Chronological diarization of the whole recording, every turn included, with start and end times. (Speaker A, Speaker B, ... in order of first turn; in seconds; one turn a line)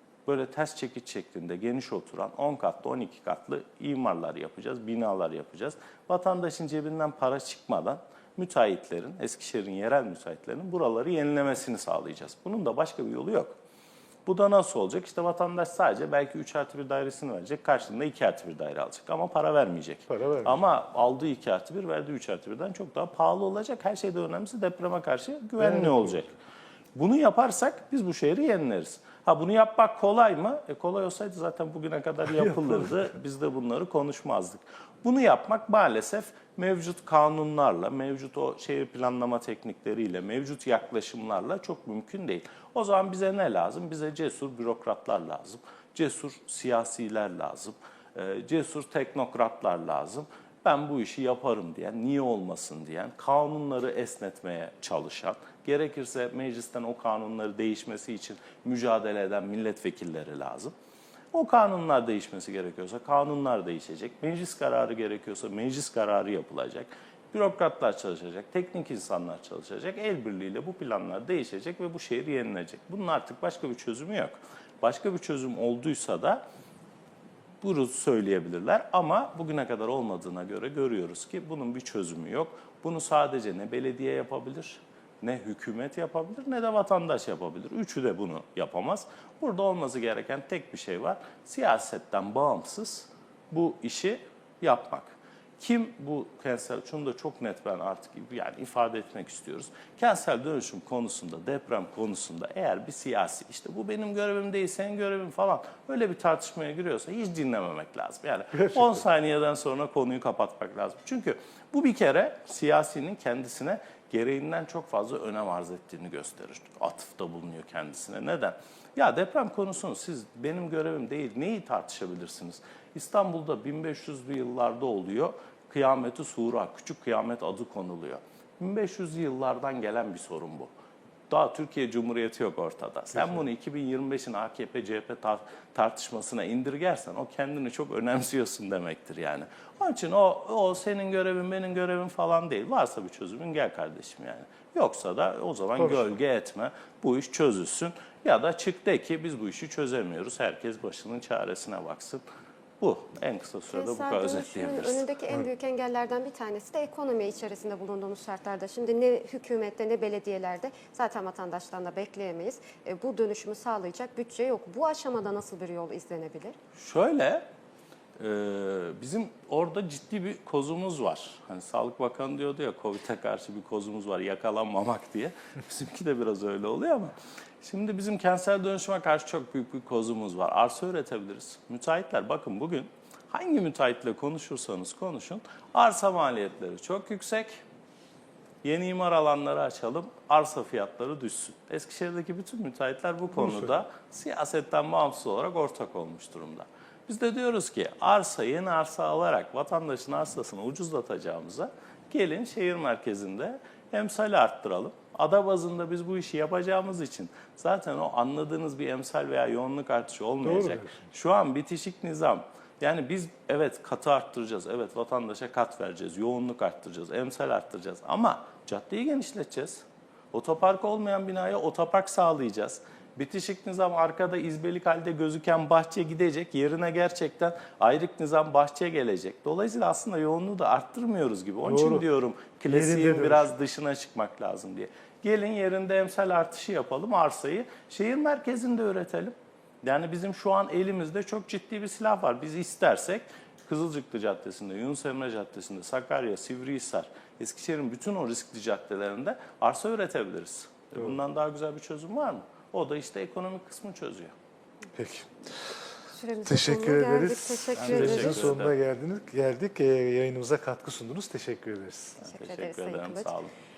Speaker A: 0.2-13.6
Speaker A: 14.2-26.3
Speaker B: 20.1-20.6
Speaker B: 25.6-26.2
Speaker A: 26.9-60.7
Speaker A: 61.3-76.4
Speaker A: 77.6-130.7
Speaker B: 108.5-109.0
Speaker A: 131.3-152.2
Speaker B: 145.8-146.1
Speaker A: 152.8-155.1
Speaker C: 153.7-166.6
Speaker A: 166.8-167.4
Speaker A: 168.2-187.6
Speaker A: 188.6-254.3
Speaker B: 193.4-193.7
Speaker B: 210.4-211.1
Speaker B: 231.6-232.1
Speaker B: 232.7-233.5
Speaker B: 254.9-255.7
Speaker C: 256.1-258.6
Speaker B: 256.4-262.2
Speaker A: 257.7-258.7
Speaker A: 262.2-263.5
Speaker C: 262.2-263.3